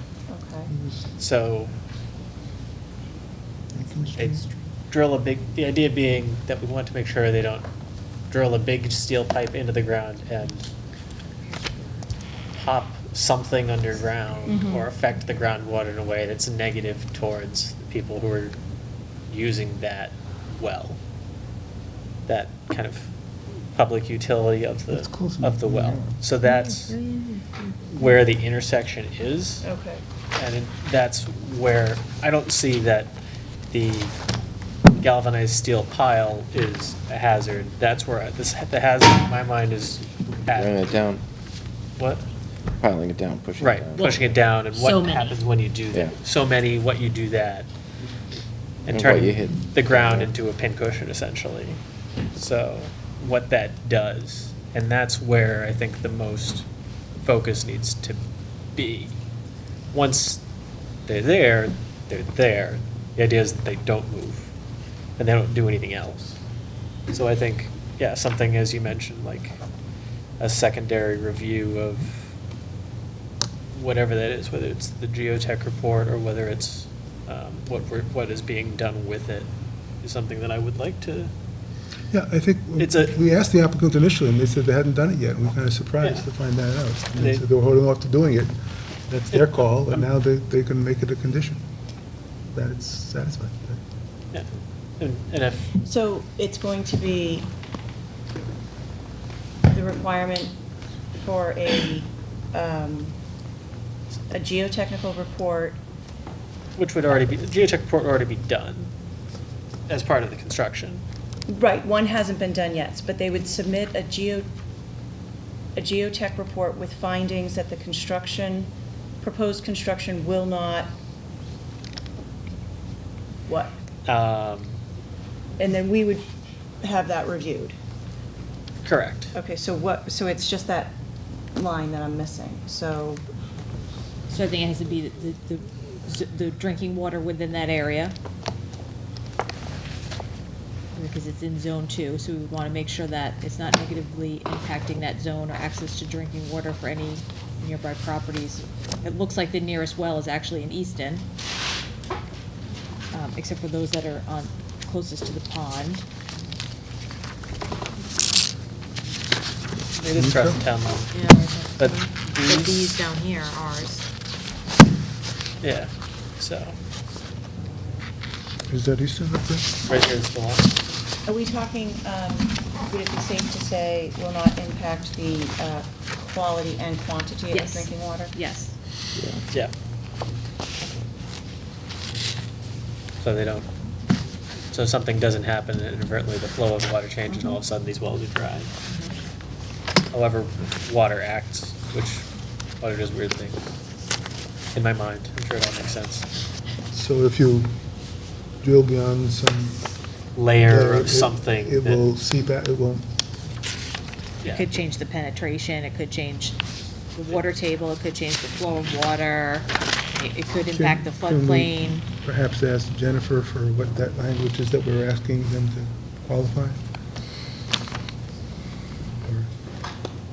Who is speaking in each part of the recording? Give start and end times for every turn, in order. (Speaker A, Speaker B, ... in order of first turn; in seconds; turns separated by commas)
Speaker A: 0.3-0.7, Speaker B: 0.7-1.1, Speaker C: 1.2-1.7, Speaker B: 3.7-4.4, Speaker C: 4.2-7.7, Speaker C: 8.3-10.6, Speaker C: 12.5-18.6, Speaker A: 14.5-14.9, Speaker C: 19.3-21.0, Speaker C: 22.3-23.1, Speaker C: 23.7-27.0, Speaker B: 24.9-26.2, Speaker D: 26.4-27.7, Speaker C: 27.9-29.6, Speaker A: 29.6-30.0, Speaker C: 30.4-33.2, Speaker C: 33.7-34.1, Speaker C: 35.0-40.9, Speaker E: 40.5-41.2, Speaker C: 42.0-42.3, Speaker E: 42.8-44.4, Speaker C: 43.6-47.7, Speaker D: 44.7-45.4, Speaker E: 48.9-50.3, Speaker C: 48.9-51.8, Speaker C: 52.4-56.7, Speaker C: 57.2-58.2, Speaker C: 58.8-59.2, Speaker C: 59.9-60.4, Speaker C: 61.1-64.5, Speaker C: 65.2-66.4, Speaker C: 67.1-69.6, Speaker C: 70.4-72.3, Speaker C: 73.7-79.5, Speaker C: 80.0-81.3, Speaker B: 82.1-88.5, Speaker C: 82.8-83.2, Speaker C: 86.0-86.3, Speaker C: 87.2-87.4, Speaker B: 89.1-91.6, Speaker C: 89.3-90.0, Speaker B: 92.5-93.8, Speaker C: 95.0-95.7, Speaker A: 95.8-97.5, Speaker A: 99.7-100.5, Speaker A: 101.2-103.2, Speaker A: 104.3-105.8, Speaker C: 106.8-108.9, Speaker C: 109.9-111.0, Speaker A: 111.5-114.5, Speaker A: 115.8-121.0, Speaker A: 123.5-123.8, Speaker C: 124.1-124.8, Speaker A: 125.6-126.3, Speaker A: 126.8-127.8, Speaker C: 128.8-129.3, Speaker A: 129.3-130.9, Speaker A: 131.6-133.2, Speaker D: 134.3-138.2, Speaker D: 140.9-151.3, Speaker D: 153.1-156.1, Speaker C: 159.9-162.9, Speaker B: 160.1-160.6, Speaker D: 161.1-164.1, Speaker C: 165.6-166.8, Speaker B: 168.7-169.7, Speaker C: 169.9-170.7, Speaker A: 171.3-178.3, Speaker D: 177.5-178.8, Speaker C: 183.2-183.7, Speaker C: 184.7-188.7, Speaker D: 187.3-187.6, Speaker D: 188.9-189.2, Speaker C: 190.1-192.3, Speaker C: 192.8-193.6, Speaker C: 194.7-196.3, Speaker B: 196.9-197.7, Speaker B: 198.6-199.9, Speaker C: 200.3-202.0, Speaker B: 200.7-203.1, Speaker C: 204.4-204.7, Speaker D: 204.5-206.6, Speaker D: 207.2-212.1, Speaker B: 210.7-216.8, Speaker B: 219.2-219.5